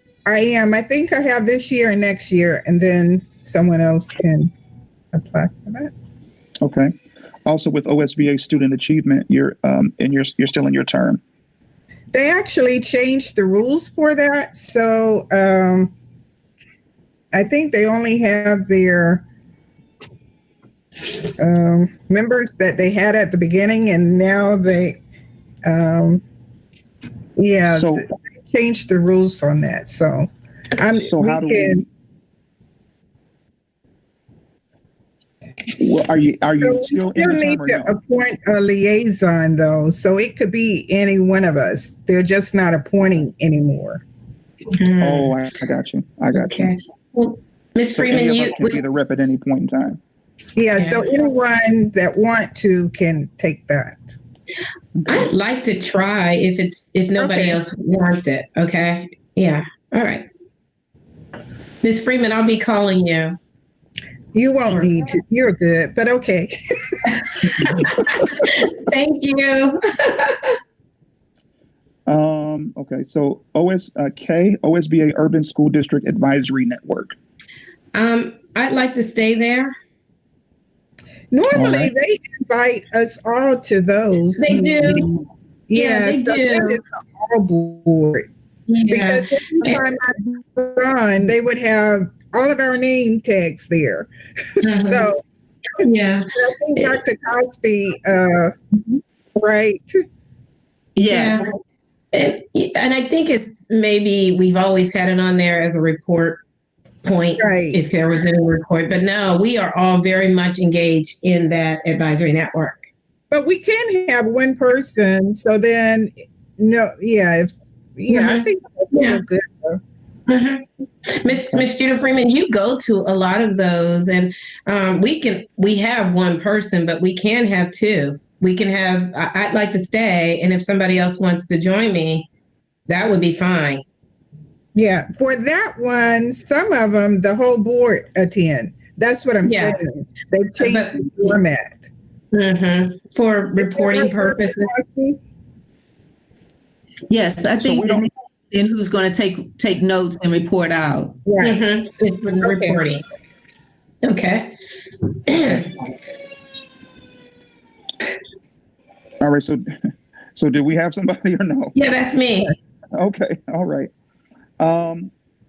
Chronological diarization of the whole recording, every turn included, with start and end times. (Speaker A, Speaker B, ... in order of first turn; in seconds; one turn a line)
Speaker A: 0.3-4.5
Speaker A: 5.1-5.9
Speaker B: 6.6-6.9
Speaker B: 7.5-11.2
Speaker A: 12.1-15.9
Speaker A: 17.3-19.2
Speaker A: 21.4-25.0
Speaker A: 25.6-26.2
Speaker A: 27.4-31.9
Speaker B: 27.7-28.0
Speaker B: 30.9-31.9
Speaker B: 35.8-38.0
Speaker A: 36.6-44.0
Speaker C: 44.7-45.3
Speaker B: 45.0-46.7
Speaker C: 46.3-48.8
Speaker B: 48.0-50.0
Speaker A: 50.6-54.1
Speaker C: 50.8-51.0
Speaker B: 55.0-55.3
Speaker C: 55.1-60.3
Speaker A: 57.2-57.6
Speaker C: 61.8-63.3
Speaker A: 64.3-67.2
Speaker C: 67.5-70.6
Speaker B: 72.1-77.2
Speaker C: 77.9-79.7
Speaker A: 81.3-85.1
Speaker B: 81.5-81.9
Speaker C: 84.4-85.1
Speaker A: 85.7-88.3
Speaker C: 85.7-86.8
Speaker C: 88.7-89.8
Speaker A: 88.9-95.2
Speaker C: 94.6-95.1
Speaker C: 95.8-96.3
Speaker A: 95.8-98.5
Speaker A: 99.4-100.0
Speaker C: 101.0-101.5
Speaker C: 102.1-106.4
Speaker C: 107.0-112.9
Speaker A: 107.4-107.8
Speaker A: 113.3-119.8
Speaker C: 118.1-119.2
Speaker C: 120.3-132.3
Speaker C: 132.9-133.8
Speaker A: 134.8-141.9
Speaker C: 139.4-139.8
Speaker C: 140.6-141.4
Speaker C: 142.3-144.7
Speaker A: 143.6-145.2
Speaker D: 147.1-147.5
Speaker B: 147.6-148.1
Speaker D: 148.5-151.1
Speaker A: 151.3-151.6
Speaker C: 151.4-153.0
Speaker A: 152.4-152.8
Speaker C: 154.0-154.5
Speaker C: 155.3-155.7
Speaker B: 159.2-159.6
Speaker B: 160.4-161.8
Speaker C: 161.8-162.6
Speaker B: 162.9-163.9
Speaker B: 164.6-165.1